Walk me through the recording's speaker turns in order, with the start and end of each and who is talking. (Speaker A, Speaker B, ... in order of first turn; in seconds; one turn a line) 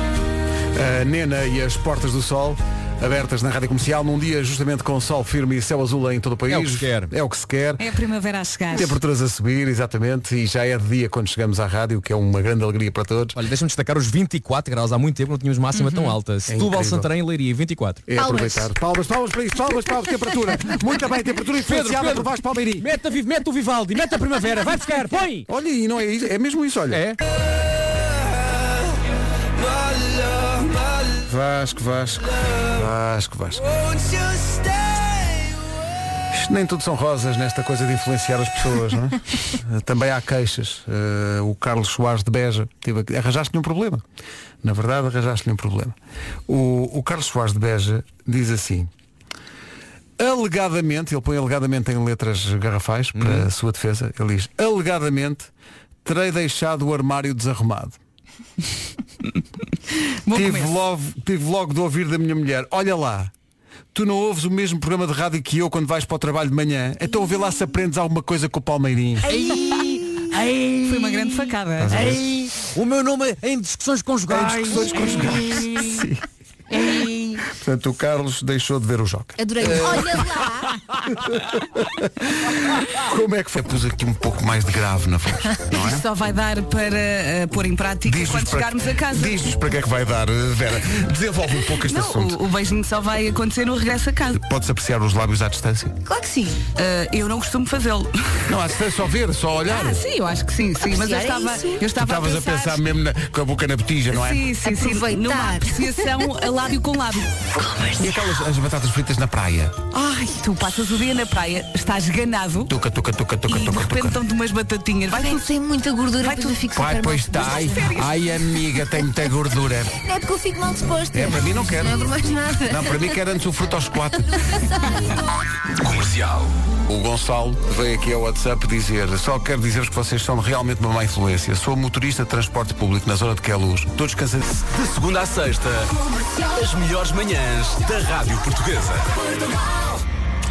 Speaker A: 0.7-7.8
Speaker B: 6.5-7.1
Speaker C: 7.8-8.9
Speaker A: 8.7-13.3
Speaker B: 13.3-18.0
Speaker C: 15.7-16.2
Speaker A: 16.5-17.1
Speaker A: 18.1-22.9
Speaker D: 18.1-18.7
Speaker B: 21.7-25.4
Speaker A: 25.5-27.0
Speaker B: 26.9-27.2
Speaker A: 31.2-33.7
Speaker A: 36.3-44.0
Speaker A: 44.6-46.0
Speaker A: 46.5-48.9
Speaker A: 50.2-55.5
Speaker B: 53.1-53.5
Speaker A: 56.0-58.0
Speaker C: 60.2-60.7
Speaker A: 60.3-63.3
Speaker A: 63.9-69.3
Speaker B: 69.2-76.0
Speaker C: 70.8-72.0
Speaker A: 71.8-72.3
Speaker A: 74.3-76.2
Speaker B: 76.7-77.4
Speaker A: 77.5-86.0
Speaker D: 79.4-80.7
Speaker C: 85.7-89.5
Speaker A: 88.0-92.4
Speaker C: 91.8-94.4
Speaker A: 94.3-96.0
Speaker D: 96.0-96.6
Speaker C: 96.8-98.3
Speaker A: 98.5-100.0
Speaker C: 99.7-102.8
Speaker D: 100.9-101.8
Speaker A: 101.9-104.5
Speaker C: 104.1-107.3
Speaker D: 104.6-106.0
Speaker A: 107.9-109.8
Speaker C: 109.9-112.7
Speaker A: 112.7-114.2
Speaker C: 113.5-115.5
Speaker D: 115.1-117.9
Speaker C: 116.2-116.6
Speaker A: 116.7-119.9
Speaker C: 117.5-118.0
Speaker D: 120.0-123.1
Speaker A: 121.1-122.1
Speaker A: 122.7-124.4
Speaker D: 124.5-125.2
Speaker E: 125.8-126.5
Speaker A: 126.8-134.4
Speaker E: 134.5-135.9
Speaker E: 136.4-139.3